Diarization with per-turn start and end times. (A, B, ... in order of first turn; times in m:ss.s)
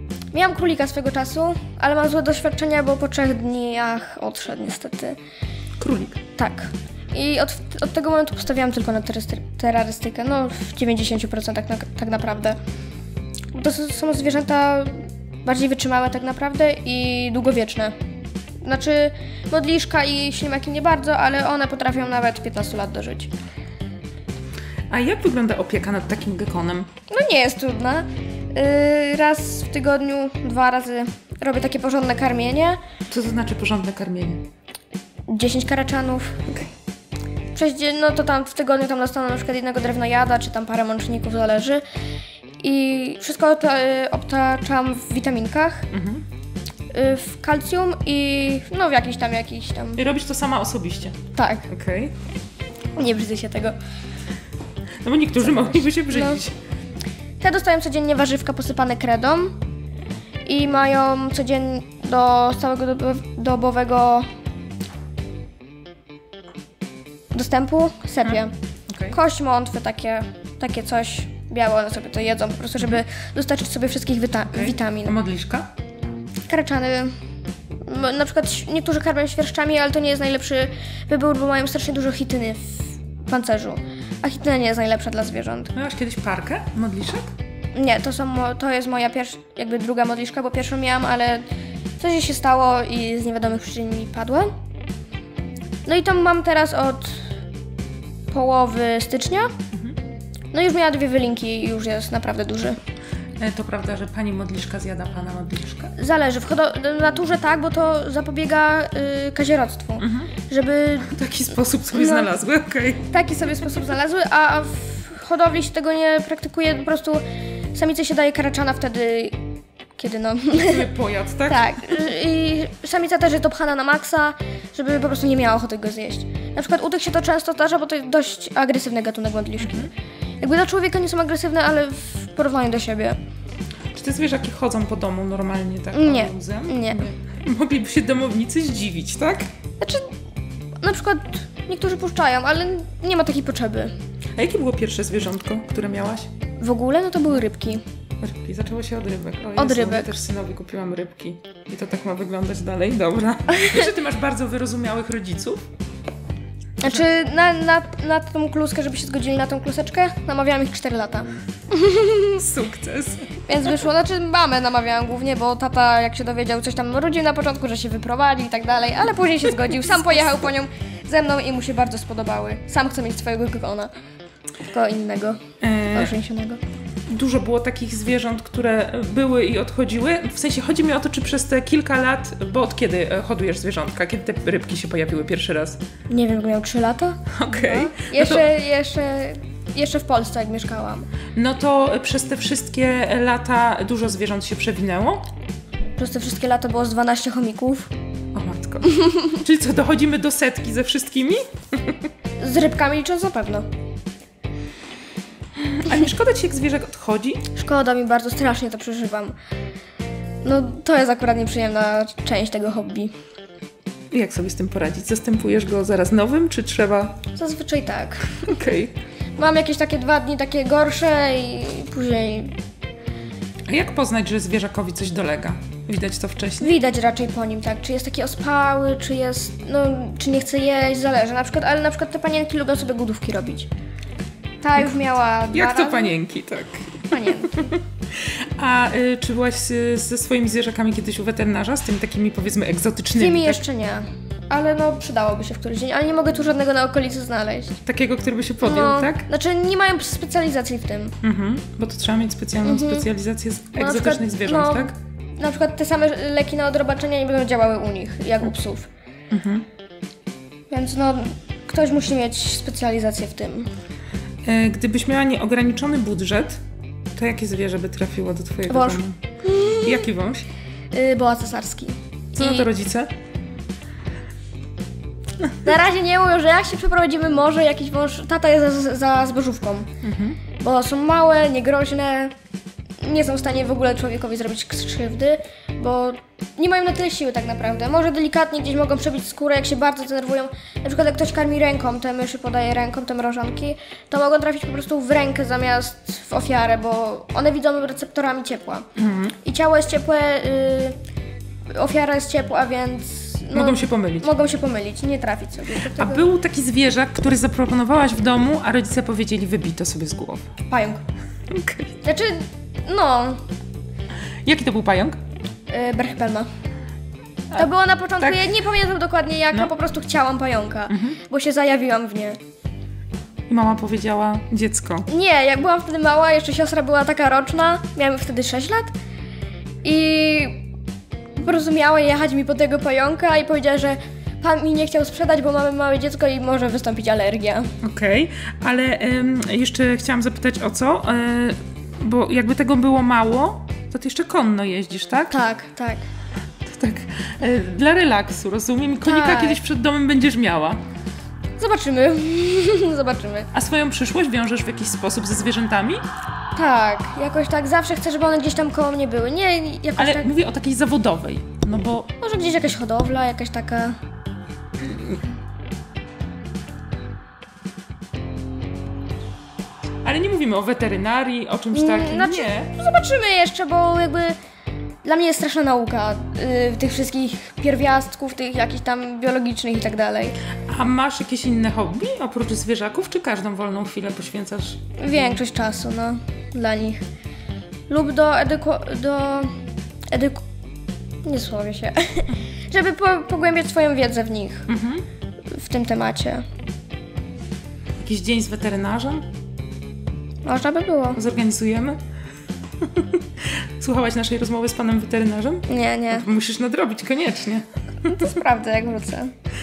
0:00.3-0:05.2 A
0:05.8-0:06.2 B
0:06.4-0:12.6 A
0:13.5-0:18.0 A
0:18.6-0:23.3 A
0:24.9-0:26.9 B
0:27.1-0:32.8 A
0:33.1-0:34.4 B
0:35.3-0:36.6 A
0:37.5-0:41.8 A
0:42.6-0:45.9 A
0:45.9-0:46.2 B
0:46.9-0:50.0 A
0:50.0-0:51.2 B
0:51.4-0:51.7 A
0:51.7-0:52.1 B
0:53.0-0:53.8 A
0:55.0-0:56.6 B
0:55.7-0:56.4 A
0:57.4-0:59.6 A
1:00.4-1:04.3 A
1:07.3-1:08.5 A
1:08.2-1:09.2 B
1:09.1-1:15.2 A
1:14.5-1:15.7 B
1:16.5-1:17.1 A
1:17.8-1:25.7 A
1:25.8-1:27.3 B
1:27.7-1:31.5 A
1:32.0-1:34.5 A
1:35.8-1:37.3 A
1:38.3-1:39.5 A
1:40.5-1:42.8 A
1:43.4-1:45.9 B
1:46.0-1:51.2 A
1:50.0-1:50.3 B
1:51.1-1:53.1 B
1:51.9-1:52.3 A
1:53.1-1:57.2 A
1:57.7-1:59.4 A
2:00.0-2:00.9 A
2:00.5-2:02.0 B
2:01.5-2:13.2 A
2:09.6-2:09.9 B
2:13.9-2:19.5 B
2:15.9-2:17.0 A
2:19.8-2:20.1 A
2:20.8-2:23.9 A
2:24.4-2:26.3 B
2:26.6-2:27.8 A
2:28.2-2:35.6 B
2:29.6-2:30.1 A
2:36.8-2:42.4 A
2:42.3-2:43.4 B
2:43.5-2:53.9 A
2:49.7-2:50.4 B
2:54.7-2:56.6 A
2:55.6-2:56.1 B
2:57.1-3:05.8 B
3:06.1-3:11.1 A
3:07.3-3:08.5 B
3:11.4-3:15.3 B
3:16.0-3:17.9 A
3:18.3-3:22.1 B
3:22.4-3:23.7 A
3:25.7-3:27.4 B
3:27.6-3:29.4 A
3:30.4-3:33.2 A
3:34.1-3:37.2 B
3:37.3-3:38.5 A
3:38.4-3:38.9 B
3:39.4-3:42.6 A
3:43.7-3:46.8 B
3:46.6-3:53.7 A
3:54.6-3:56.2 A
3:55.5-4:03.6 B
3:57.1-3:57.7 A
4:03.1-4:07.8 A
4:07.9-4:09.3 B
4:08.6-4:11.2 A
4:11.2-4:14.9 B
4:12.6-4:13.1 A
4:13.7-4:18.9 A
4:19.3-4:19.7 B
4:20.7-4:23.7 A
4:24.4-4:26.6 B
4:27.2-4:29.2 B
4:28.7-4:30.1 A
4:29.8-4:30.5 B
4:30.9-4:32.7 A
4:32.3-4:33.1 B
4:35.6-4:39.9 A
4:40.0-4:40.4 B
4:40.6-4:42.3 A
4:43.0-4:58.9 A
4:59.0-4:59.4 B
4:59.4-5:01.0 A
5:01.7-5:06.3 A
5:03.5-5:04.3 B
5:05.9-5:10.5 B
5:10.7-5:11.0 A
5:11.5-5:12.0 B
5:12.0-5:13.4 A
5:14.4-5:15.2 B
5:15.7-5:16.5 A
5:17.5-5:22.4 A
5:18.2-5:18.6 B
5:20.9-5:21.2 B
5:23.5-5:25.1 B
5:25.1-5:28.9 A
5:29.8-5:30.7 A
5:31.4-5:37.7 A
5:37.8-5:45.4 B
5:45.3-5:46.0 A
5:46.6-5:50.8 B
5:49.0-5:49.6 A
5:51.6-5:53.5 A
5:53.5-5:56.1 B
5:56.6-6:00.3 A
6:00.0-6:02.1 B
6:02.2-6:04.0 A
6:04.8-6:05.2 B
6:10.0-6:12.7 B
6:11.7-6:14.4 A
6:15.0-6:20.4 A
6:20.7-6:25.4 B
6:25.0-6:27.0 A
6:27.9-6:29.5 A
6:30.1-6:30.4 A
6:31.2-6:34.7 A
6:34.7-6:35.0 B
6:35.5-6:36.5 A
6:38.0-6:39.3 B
6:40.4-6:41.2 A
6:41.2-6:42.0 B
6:42.8-6:48.4 B
6:45.7-6:46.3 A
6:48.1-6:49.3 A